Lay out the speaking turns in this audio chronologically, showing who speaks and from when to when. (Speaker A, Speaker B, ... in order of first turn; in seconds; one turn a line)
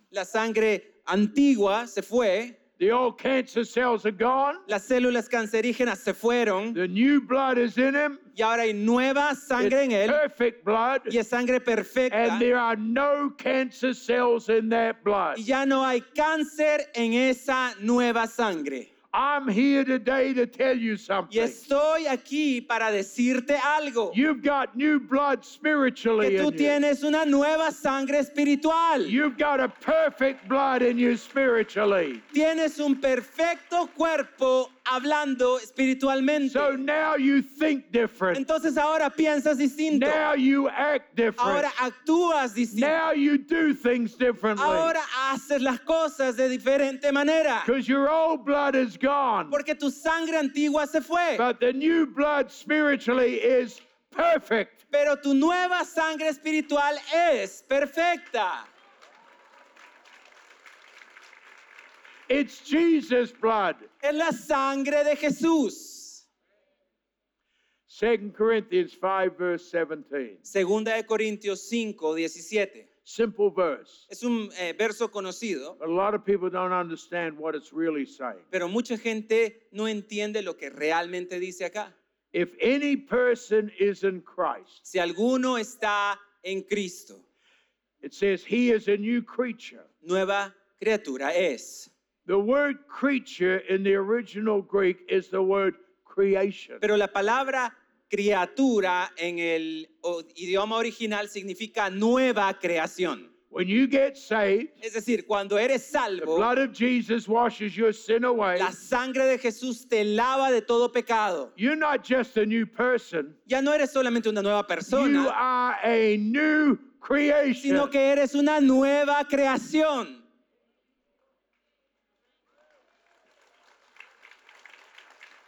Speaker A: 0.1-2.6
Speaker B: 2.8-4.6
Speaker A: 4.7-6.8
Speaker B: 6.7-8.2
Speaker A: 8.3-10.2
Speaker B: 9.6-11.1
Speaker A: 11.1-12.4
Speaker B: 12.1-15.4
Speaker A: 15.3-18.9
Speaker B: 19.1-21.6
Speaker A: 21.3-24.2
Speaker B: 24.1-26.8
Speaker A: 26.2-29.1
Speaker B: 29.0-32.2
Speaker A: 32.3-36.8
Speaker B: 36.4-38.4
Speaker A: 38.3-40.2
Speaker B: 39.9-41.7
Speaker A: 41.4-42.9
Speaker B: 42.7-45.0
Speaker A: 44.5-47.7
Speaker B: 47.6-49.6
Speaker A: 49.5-51.4
Speaker B: 51.4-54.8
Speaker A: 54.9-58.7
Speaker B: 62.3-63.9
Speaker A: 64.0-66.2
Speaker B: 67.9-70.4
Speaker A: 70.5-72.9
Speaker B: 73.0-74.0
Speaker A: 74.1-75.8
Speaker B: 75.8-78.4
Speaker A: 78.5-81.9
Speaker B: 82.3-84.8
Speaker A: 84.8-87.2
Speaker B: 88.0-89.8
Speaker A: 90.0-91.9
Speaker B: 92.2-96.8
Speaker A: 96.8-103.3
Speaker B: 103.5-104.8
Speaker A: 104.8-106.5
Speaker B: 106.2-108.7
Speaker A: 108.5-111.5
Speaker B: 111.5-113.4
Speaker A: 113.5-115.3
Speaker B: 114.9-117.9
Speaker A: 117.6-120.2